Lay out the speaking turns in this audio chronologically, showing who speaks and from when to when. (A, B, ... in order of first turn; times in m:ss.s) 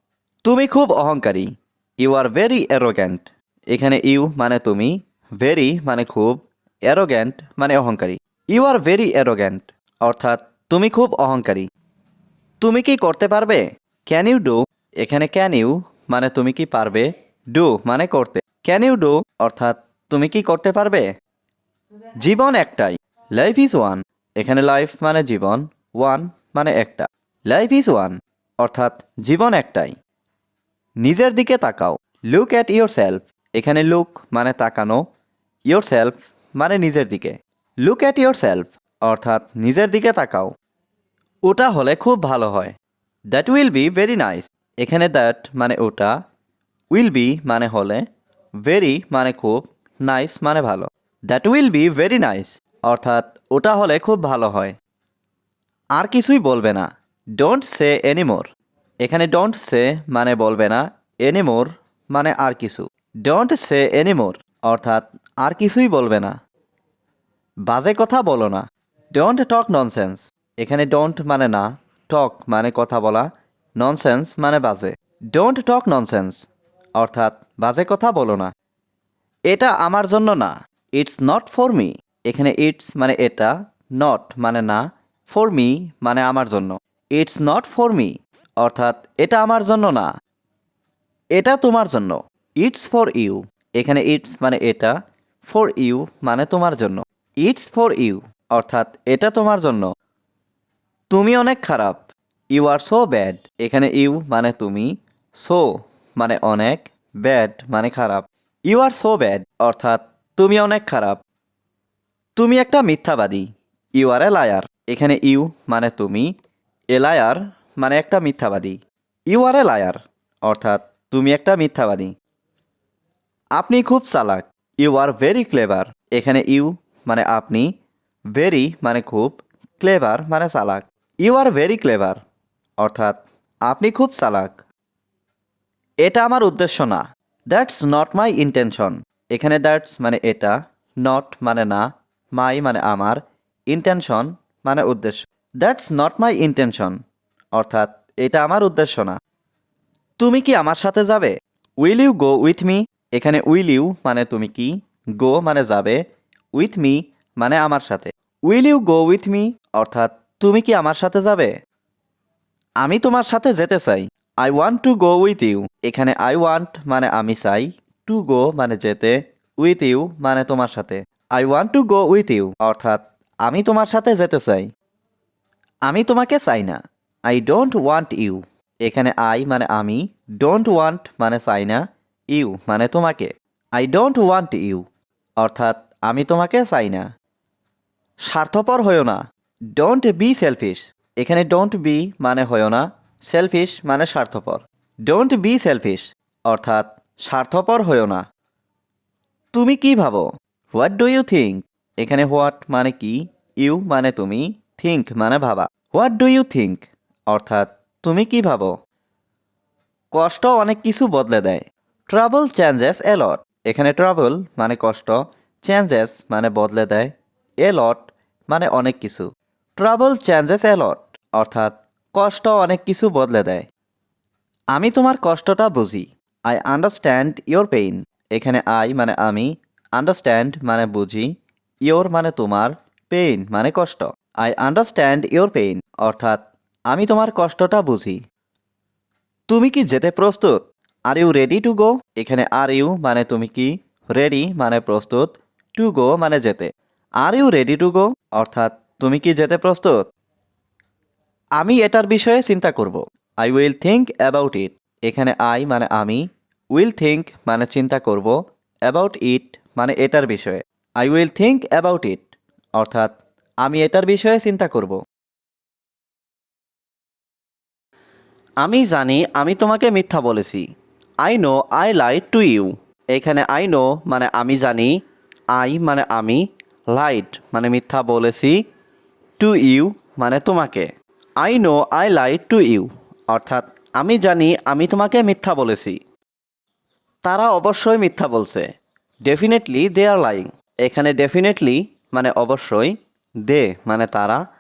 0:00.4-0:11.7 A
0:12.6-0:21.1 A
0:22.2-0:30.0 A
0:31.0-0:35.0 A
0:35.7-0:40.5 A
0:41.4-0:42.7 A
0:43.3-0:46.1 A
0:46.9-0:48.0 A
0:48.6-0:54.8 A
0:56.0-0:58.5 A
0:59.0-1:06.4 A
1:07.7-1:18.5 A
1:19.5-1:30.1 A
1:31.3-1:39.9 A
1:41.1-1:51.2 A
1:52.4-1:56.3 A
1:56.9-1:58.8 A
1:59.3-2:02.1 A
2:03.6-2:07.7 A
2:08.3-2:12.2 A
2:12.8-2:14.6 A
2:16.0-2:27.0 A
2:27.5-2:29.2 A
2:30.2-2:36.0 A
2:36.6-2:41.5 A
2:42.8-2:54.7 A
2:55.9-3:04.8 A
3:05.4-3:07.1 A
3:08.2-3:09.2 A
3:09.8-3:18.2 A
3:19.5-3:28.7 A
3:30.1-3:43.6 A
3:44.7-3:51.3 A
3:51.8-3:58.2 A
3:59.5-4:06.7 A
4:07.2-4:10.0 A
4:11.6-4:25.0 A
4:28.6-4:30.6 A
4:31.2-4:35.0 A
4:35.5-4:38.6 A
4:39.4-4:40.9 A
4:41.4-4:46.0 A
4:47.2-4:48.7 A
4:49.2-4:52.9 A
4:53.4-4:54.4 A